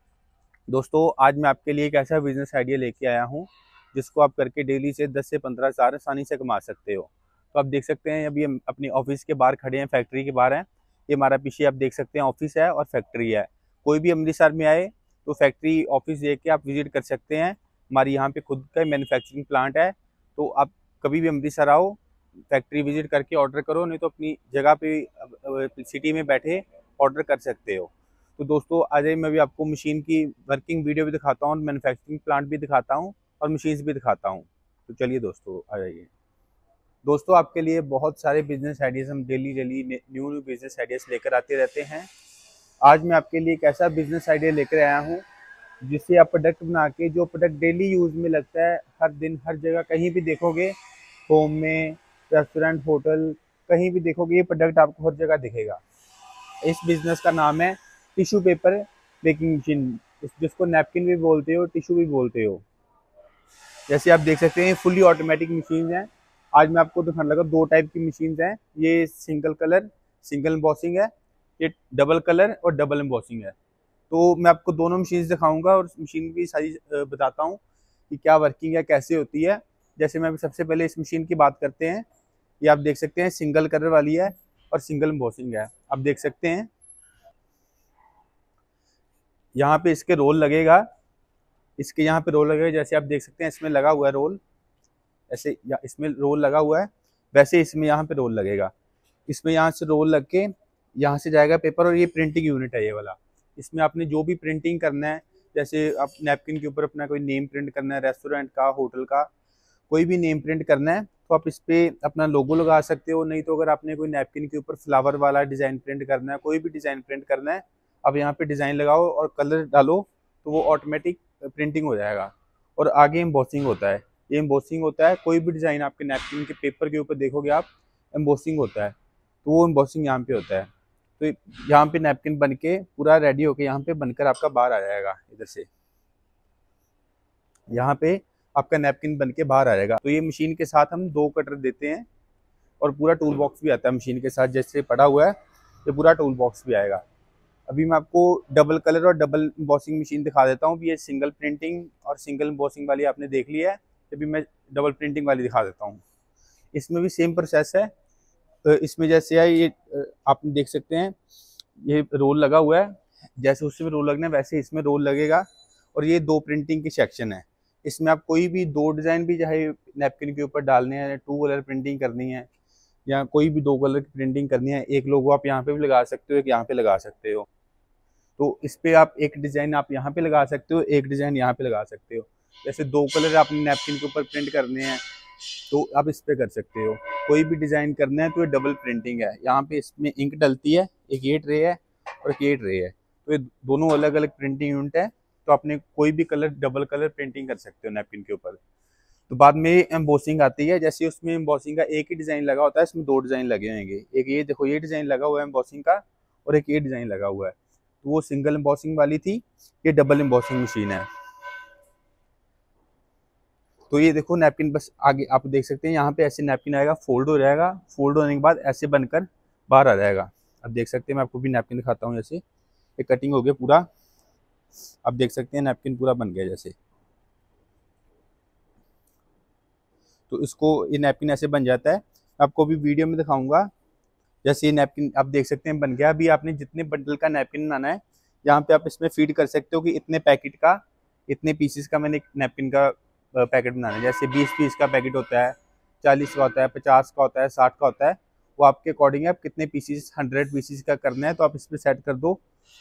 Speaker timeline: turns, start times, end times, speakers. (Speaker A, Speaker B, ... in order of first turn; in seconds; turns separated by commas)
Speaker A: 0.7-22.0, Speaker A: 22.5-36.1, Speaker A: 37.0-42.1, Speaker A: 42.8-45.2, Speaker A: 45.8-50.7, Speaker A: 51.3-55.8, Speaker A: 56.6-62.6, Speaker A: 63.9-73.5, Speaker A: 74.1-82.0, Speaker A: 82.6-86.7, Speaker A: 89.5-90.9, Speaker A: 91.8-94.4, Speaker A: 95.3-98.7, Speaker A: 99.3-109.3, Speaker A: 109.9-135.7, Speaker A: 137.7-142.0, Speaker A: 142.8-147.0, Speaker A: 147.7-156.0, Speaker A: 156.7-157.9, Speaker A: 158.6-161.1, Speaker A: 161.8-172.5, Speaker A: 173.1-177.4, Speaker A: 178.4-185.0, Speaker A: 185.6-198.6, Speaker A: 199.3-211.1, Speaker A: 213.9-222.4, Speaker A: 223.0-223.8, Speaker A: 225.0-226.7, Speaker A: 230.3-233.7, Speaker A: 234.4-252.4